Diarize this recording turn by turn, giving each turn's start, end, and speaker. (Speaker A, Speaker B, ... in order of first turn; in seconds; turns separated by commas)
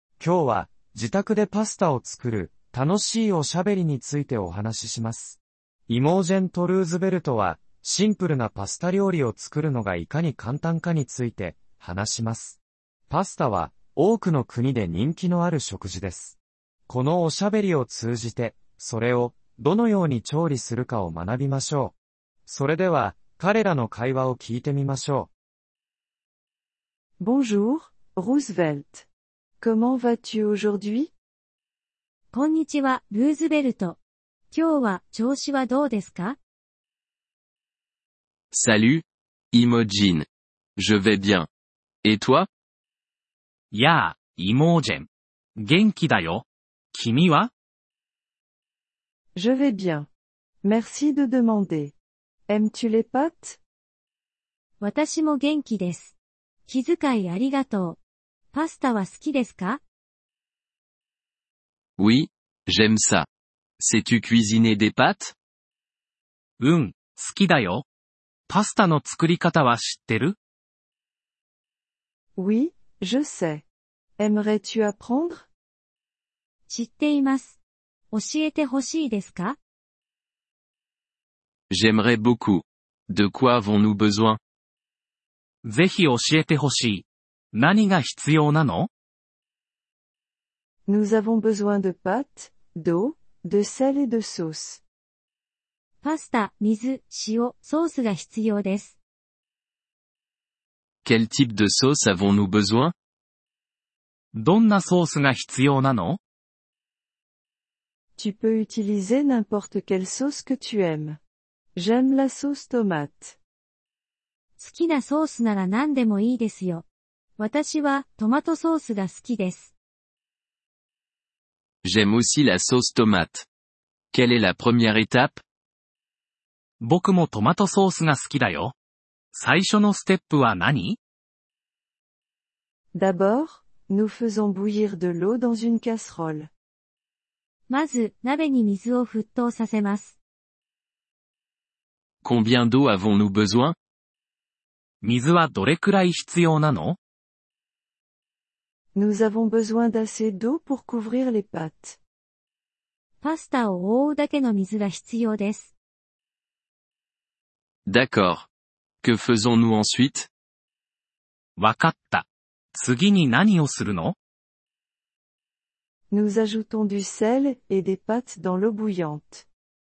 Speaker A: 0.2-12.6, Speaker A: 13.1-16.4, Speaker A: 16.9-21.9, Speaker A: 22.5-25.3, Speaker B: 27.2-29.1, Speaker B: 29.6-31.1, Speaker C: 32.3-34.0, Speaker C: 34.5-36.4, Speaker D: 38.5-41.5, Speaker D: 42.0-42.5, Speaker E: 43.7-47.5, Speaker B: 49.4-50.1, Speaker B: 50.6-51.9, Speaker B: 52.5-53.6, Speaker C: 54.8-56.1, Speaker C: 56.7-58.0, Speaker C: 58.5-59.8, Speaker D: 62.0-63.3, Speaker D: 63.8-65.3, Speaker E: 66.6-67.8, Speaker E: 68.5-70.4, Speaker B: 72.4-73.7, Speaker B: 74.2-75.5, Speaker C: 76.7-77.6, Speaker C: 78.1-79.6, Speaker D: 81.7-84.4, Speaker E: 85.6-88.9, Speaker B: 90.9-94.8, Speaker C: 96.0-99.0, Speaker D: 101.0-102.9, Speaker E: 104.3-106.2, Speaker B: 108.2-111.2, Speaker B: 111.8-113.4, Speaker C: 114.6-116.9, Speaker C: 117.4-119.7, Speaker D: 121.8-123.5, Speaker D: 124.1-125.4, Speaker E: 126.8-128.7, Speaker E: 129.3-131.0, Speaker B: 132.9-136.5, Speaker C: 137.7-140.2, Speaker D: 142.2-143.8, Speaker E: 145.0-147.0, Speaker B: 149.0-152.0, Speaker C: 153.2-155.7, Speaker D: 157.9-158.5, Speaker D: 159.0-160.3, Speaker E: 161.6-164.2, Speaker B: 166.1-169.5